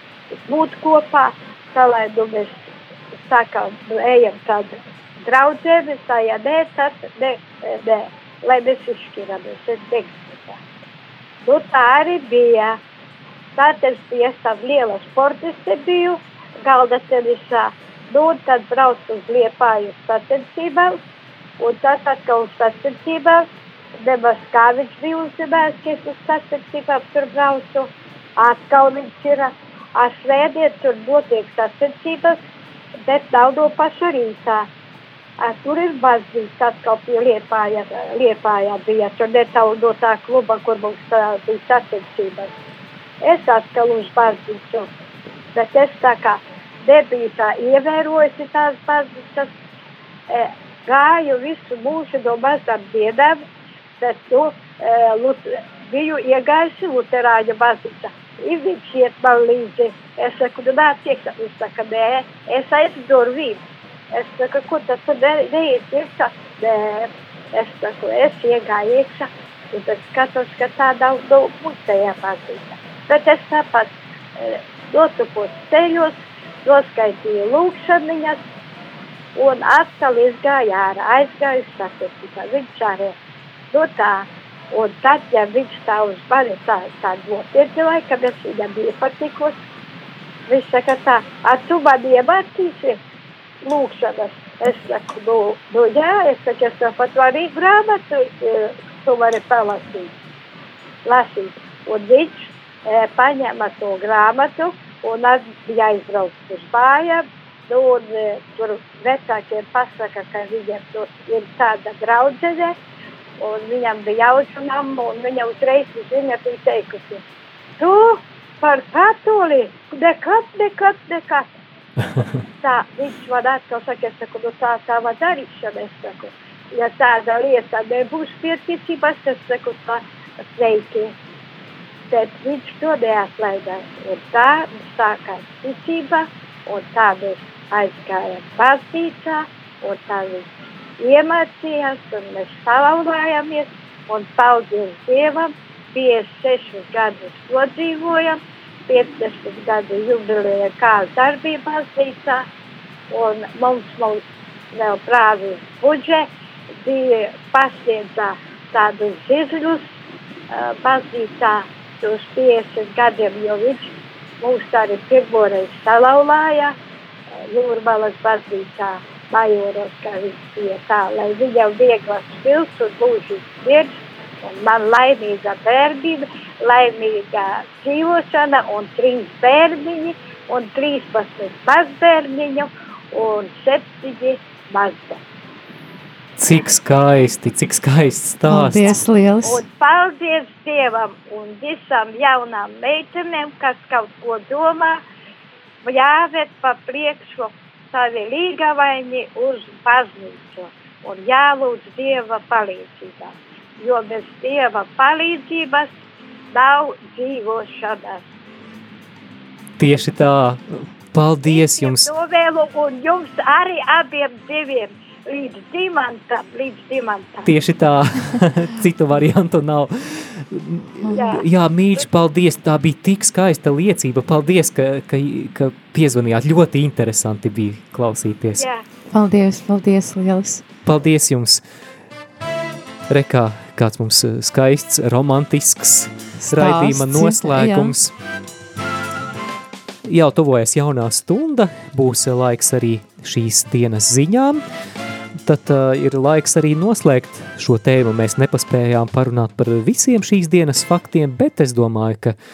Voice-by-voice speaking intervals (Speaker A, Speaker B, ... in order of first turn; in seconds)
Speaker A: 0.5-2.6, 3.2-10.6, 11.4-12.8, 13.6-21.0, 21.6-23.4, 24.0-32.4, 33.0-34.7, 35.4-42.5, 43.2-44.9, 45.5-49.5, 50.3-53.4, 54.0-63.6, 64.1-78.4, 79.3-83.1, 83.7-89.5, 90.5-93.0, 93.6-100.1, 101.0-112.7, 113.4-117.2, 117.8-121.5, 122.6-131.1, 132.1-152.4, 153.1-156.3, 156.8-159.9, 160.5-166.7, 167.4-185.2, 188.8-195.0, 195.8-205.9, 206.5-208.2, 211.4-217.6, 221.1-221.4, 228.6-228.8
Speaker B: 186.4-189.0, 209.8-212.1, 217.4-228.7, 230.8-231.6, 233.1-238.1, 240.0-244.6, 245.4-252.3
Speaker C: 188.5-189.6, 221.0-221.3, 229.1-230.6, 236.4-237.9